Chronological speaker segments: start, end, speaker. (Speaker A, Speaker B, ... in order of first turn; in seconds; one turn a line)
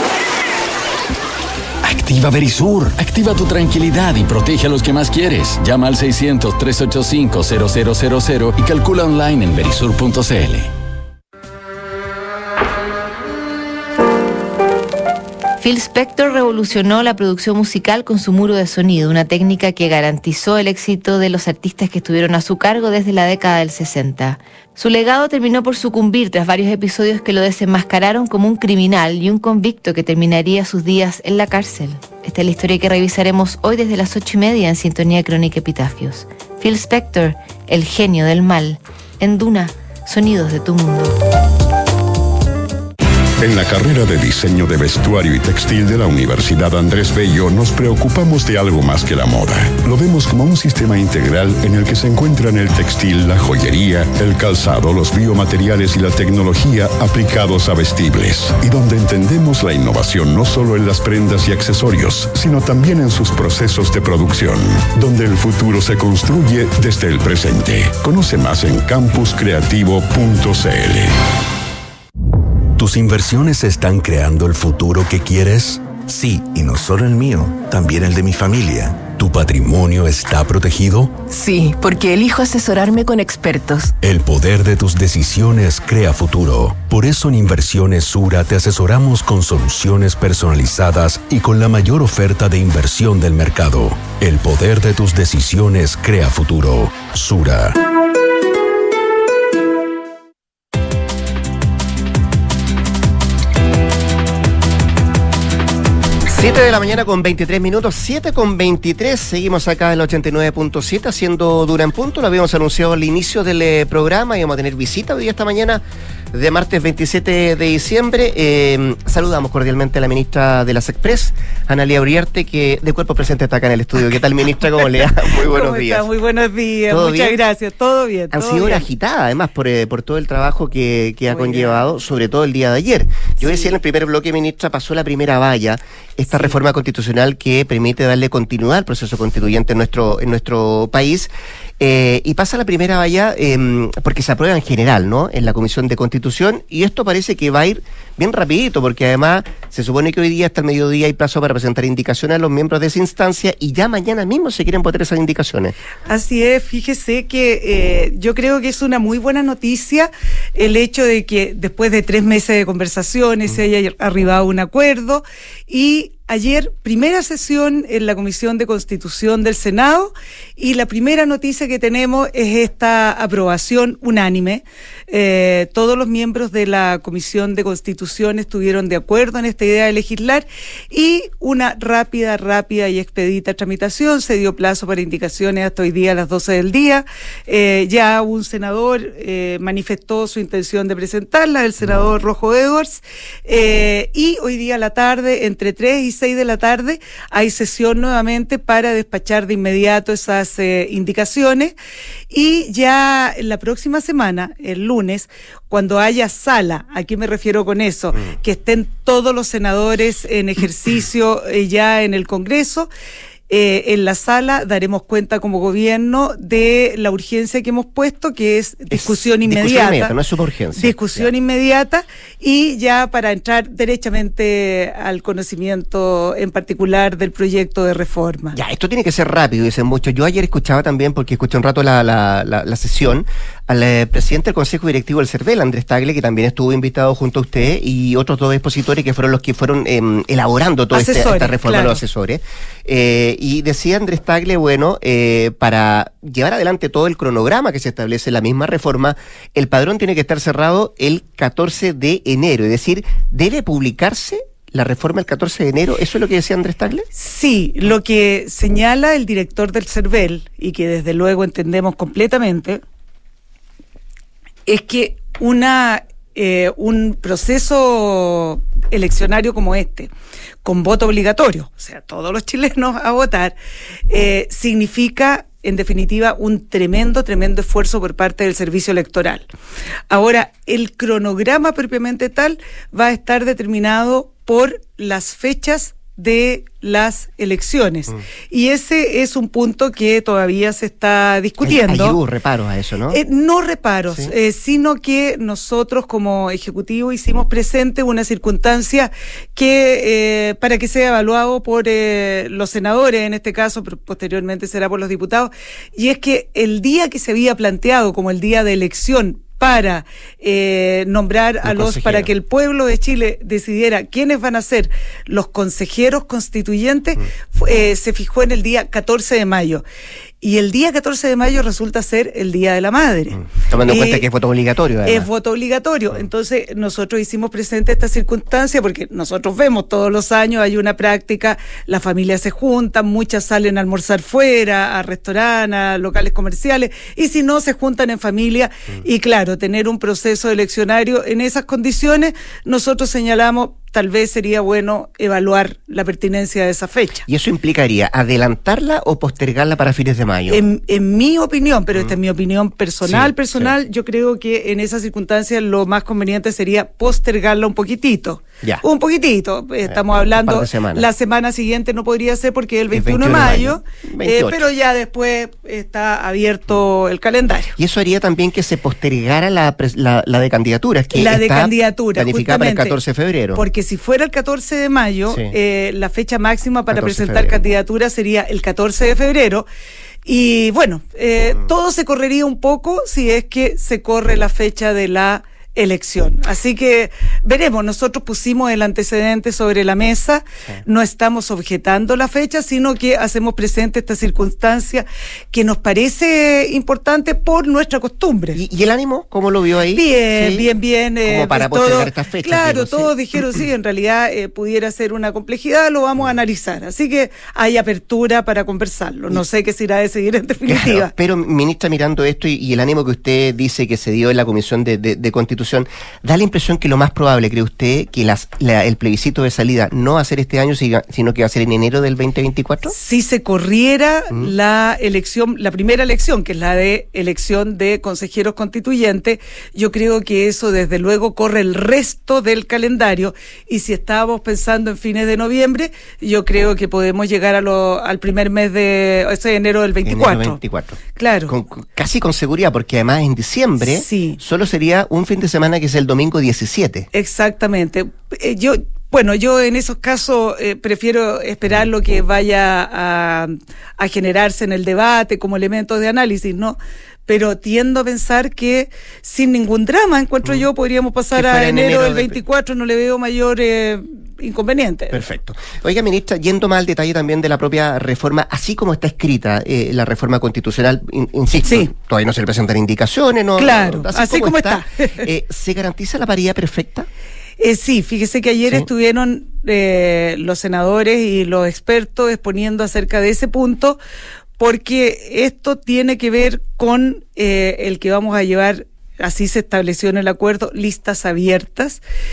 Speaker A: 1.9-10.7
Speaker B: 15.6-41.2
Speaker C: 43.4-71.2
Speaker D: 72.8-81.2
Speaker E: 81.3-83.9
Speaker D: 84.0-97.8
Speaker F: 106.3-126.1
Speaker G: 125.4-128.9
Speaker F: 126.9-127.4
Speaker F: 128.3-155.8
Speaker G: 131.3-131.9
Speaker G: 156.1-201.7
Speaker G: 202.3-212.9
Speaker G: 213.5-220.2
Speaker F: 218.9-221.3
Speaker G: 220.8-228.6
Speaker F: 228.5-257.1
Speaker G: 240.9-242.0
Speaker G: 257.1-262.8
Speaker G: 264.7-270.1
Speaker G: 270.6-273.6
Speaker G: 274.1-279.5
Speaker G: 280.1-292.2
Speaker F: 291.6-293.2
Speaker G: 293.1-319.8
Speaker F: 311.6-312.3
Speaker G: 320.4-324.2
Speaker F: 323.3-325.3
Speaker G: 325.1-347.2
Speaker F: 347.3-350.6
Speaker G: 350.5-367.8
Speaker F: 353.1-353.7
Speaker F: 359.9-361.1
Speaker F: 362.9-364.6
Speaker F: 367.8-373.6
Speaker G: 371.1-373.0
Speaker G: 373.5-379.7
Speaker F: 375.3-375.5
Speaker F: 376.9-377.6
Speaker G: 380.3-398.6
Speaker F: 398.6-400.7
Speaker G: 399.9-411.1
Speaker F: 401.2-403.1
Speaker F: 410.7-422.9
Speaker G: 422.9-440.6
Speaker F: 440.0-447.1
Speaker G: 441.2-441.5
Speaker G: 443.8-444.4
Speaker G: 447.1-465.2
Speaker F: 461.3-462.4
Speaker F: 465.1-477.1
Speaker G: 471.6-471.9
Speaker G: 473.6-475.1
Speaker G: 477.6-484.0
Speaker G: 484.6-492.0